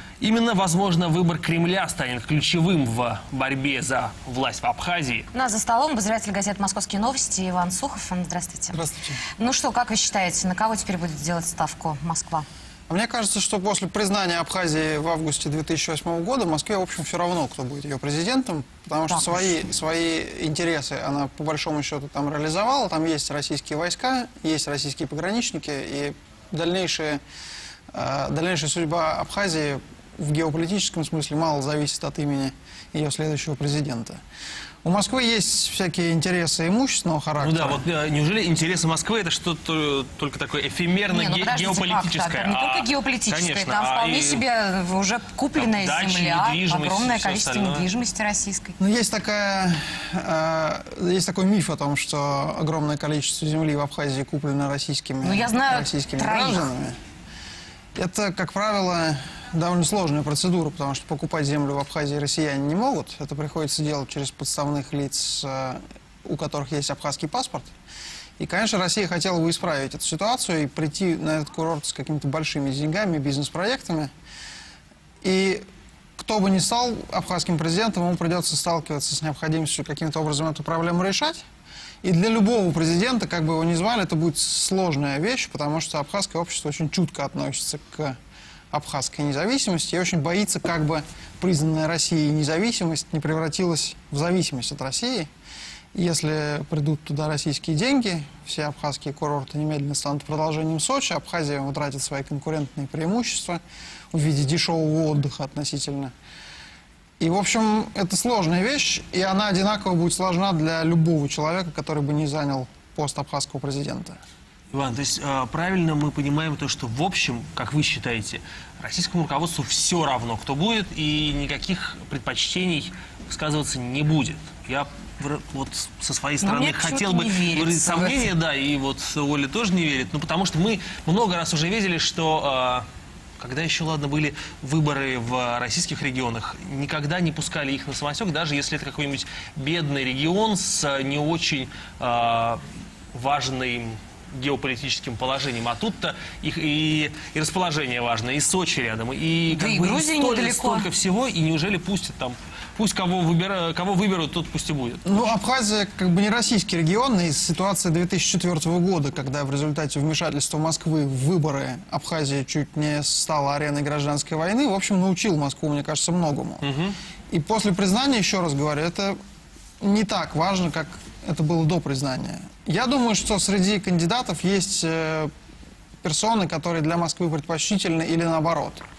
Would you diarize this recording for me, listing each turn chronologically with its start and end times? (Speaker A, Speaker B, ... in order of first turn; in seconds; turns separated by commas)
Speaker A: 0.2-5.3, Speaker B: 5.3-8.8, Speaker C: 8.7-9.2, Speaker B: 9.4-12.5, Speaker C: 12.9-27.2, Speaker B: 19.1-19.5, Speaker C: 27.9-34.2, Speaker C: 34.8-37.9, Speaker A: 37.4-44.4, Speaker B: 41.1-48.8, Speaker A: 45.5-47.9, Speaker C: 48.8-57.0, Speaker B: 55.2-56.7, Speaker C: 58.0-67.7, Speaker C: 68.4-74.1, Speaker C: 75.2-75.6, Speaker C: 76.2-81.4, Speaker C: 82.0-88.2, Speaker C: 88.7-95.3, Speaker C: 95.9-103.6, Speaker C: 104.1-106.1, Speaker C: 107.2-114.2, Speaker A: 114.7-132.9, Speaker B: 126.4-128.3, Speaker A: 133.4-155.3, Speaker B: 149.5-150.9, Speaker C: 155.1-166.7, Speaker A: 166.6-167.0, Speaker C: 167.3-169.2, Speaker C: 169.8-175.3, Speaker C: 176.0-178.8